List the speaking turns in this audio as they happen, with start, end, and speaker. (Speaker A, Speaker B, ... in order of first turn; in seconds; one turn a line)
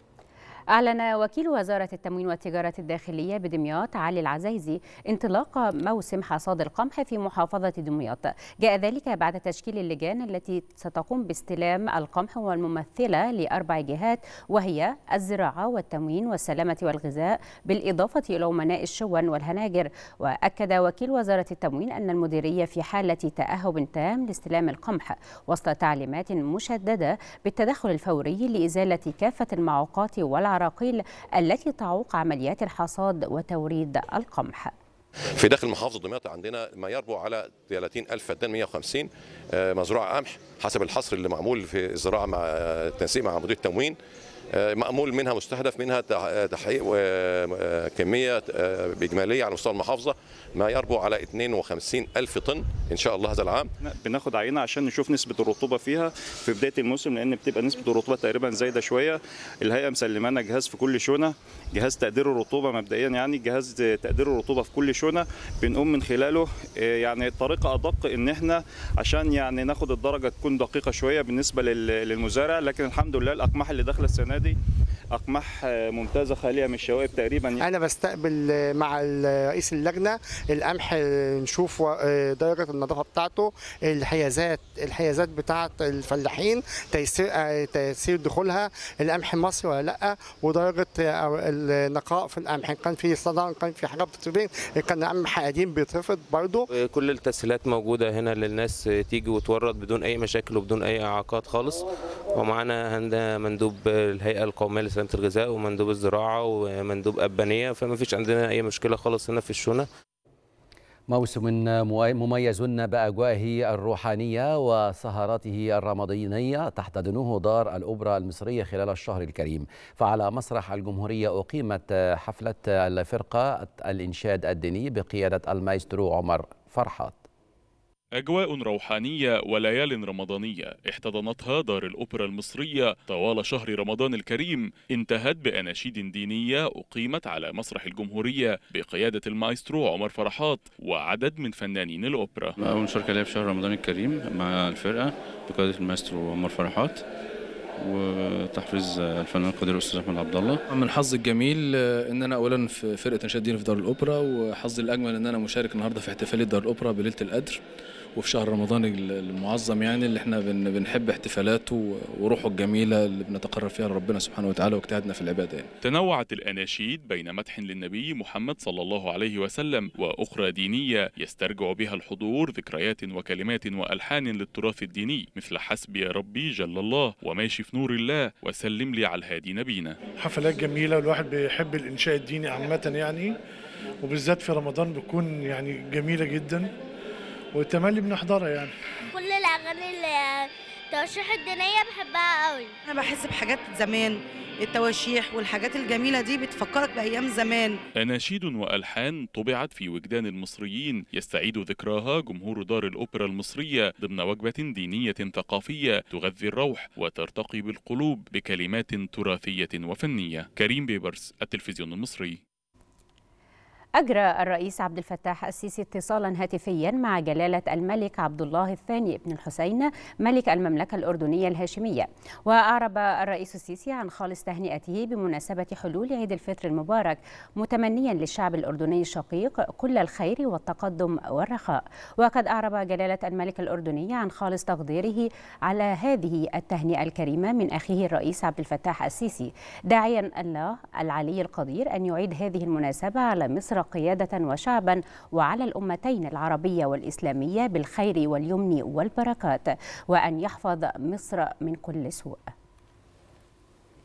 Speaker A: 0.7-34.7
Speaker B: 35.4-44.0
Speaker B: 44.5-53.7
Speaker C: 53.8-74.6
Speaker C: 75.1-77.6
Speaker D: 77.6-96.6
Speaker E: 96.7-109.9
Speaker F: 111.1-127.2
Speaker G: 128.2-142.6
Speaker H: 142.6-147.0
Speaker H: 147.8-150.6
Speaker I: 150.7-157.6
Speaker I: 158.2-165.7
Speaker G: 165.8-180.0
Speaker J: 180.2-183.4
Speaker J: 184.0-186.7
Speaker J: 187.6-188.7
Speaker K: 189.1-192.7
Speaker L: 192.8-197.8
Speaker G: 198.0-212.4
Speaker A: 214.0-252.5